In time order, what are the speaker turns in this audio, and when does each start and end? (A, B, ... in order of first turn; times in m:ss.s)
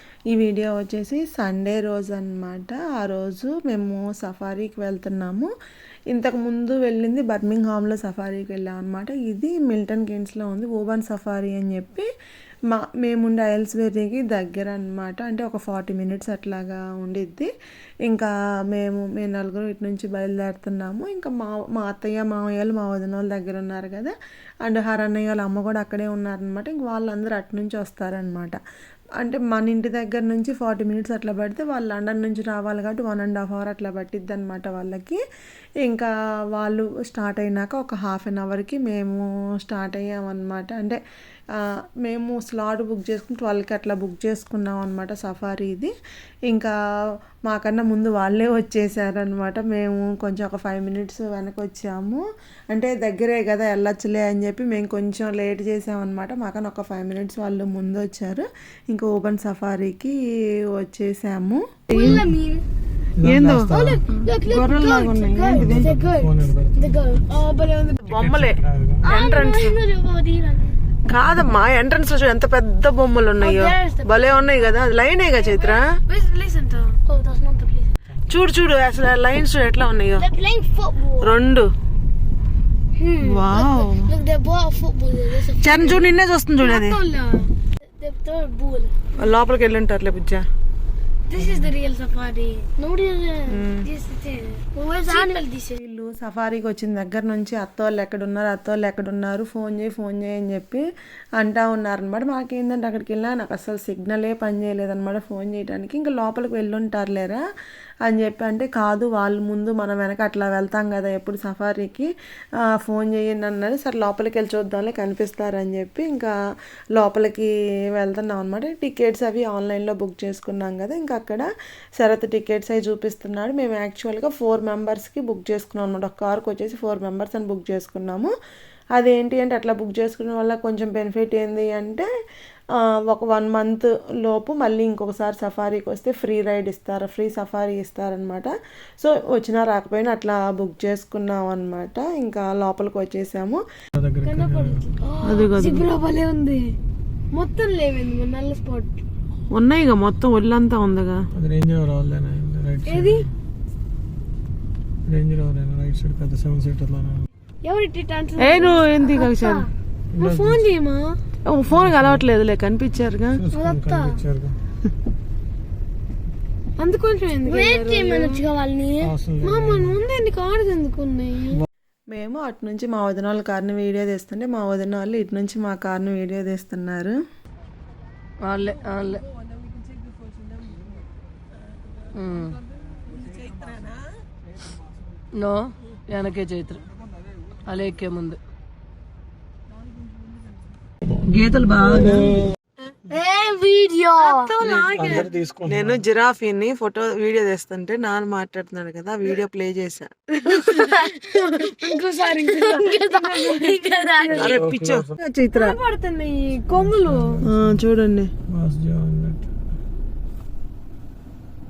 0:00.3-0:05.5 A
0:06.1-0:12.1 A
0:12.7-0:17.5 A
0:18.1-0:28.6 A
0:29.2-0:35.2 A
0:35.8-0:41.0 A
0:42.0-0:45.9 A
0:47.4-1:00.2 A
1:00.7-1:02.3 A
1:01.9-1:02.6 B
1:03.2-1:04.0 C
1:03.2-1:05.8 A
1:03.7-1:08.2 B
1:05.4-1:07.2 C
1:08.1-1:08.6 A
1:08.1-1:09.1 C
1:09.0-1:10.8 B
1:09.2-1:09.6 A
1:11.1-1:15.8 A
1:13.4-1:14.8 B
1:15.3-1:17.9 B
1:18.3-1:20.3 A
1:20.1-1:21.4 B
1:21.2-1:21.7 A
1:23.0-1:29.1 B
1:23.2-1:24.1 A
1:25.6-1:27.0 A
1:29.2-1:30.4 A
1:31.3-1:35.8 B
1:33.5-1:33.9 A
1:35.1-1:40.8 A
1:41.4-1:47.4 A
1:48.0-1:52.1 A
1:52.8-1:56.3 A
1:57.0-2:08.3 A
2:09.0-2:12.1 A
2:13.1-2:23.6 A
2:24.0-2:24.9 C
2:24.2-2:26.8 B
2:25.2-2:25.9 A
2:27.3-2:29.0 B
2:29.5-2:31.2 A
2:31.3-2:33.3 C
2:32.9-2:33.3 B
2:35.1-2:37.3 C
2:37.6-2:41.2 B
2:38.4-2:39.6 A
2:40.1-2:40.7 C
2:41.5-2:43.4 A
2:41.7-2:42.3 C
2:43.4-2:44.6 C
2:43.5-2:44.2 B
2:46.8-2:48.4 A
2:47.4-2:51.6 B
2:49.0-2:50.0 C
2:52.1-2:57.2 A
2:58.4-2:59.2 D
3:02.2-3:02.6 D
3:05.4-3:06.8 D
3:07.7-3:08.4 D
3:11.2-3:12.4 D
3:12.0-3:12.4 C
3:13.1-3:14.6 B
3:14.2-3:23.5 A
3:14.7-3:16.0 C
3:20.6-3:24.6 B
3:24.3-3:25.8 A
3:24.3-3:25.2 C
3:25.6-3:27.4 B
3:26.7-3:27.8 C
3:27.5-3:28.3 A
3:28.5-3:29.5 C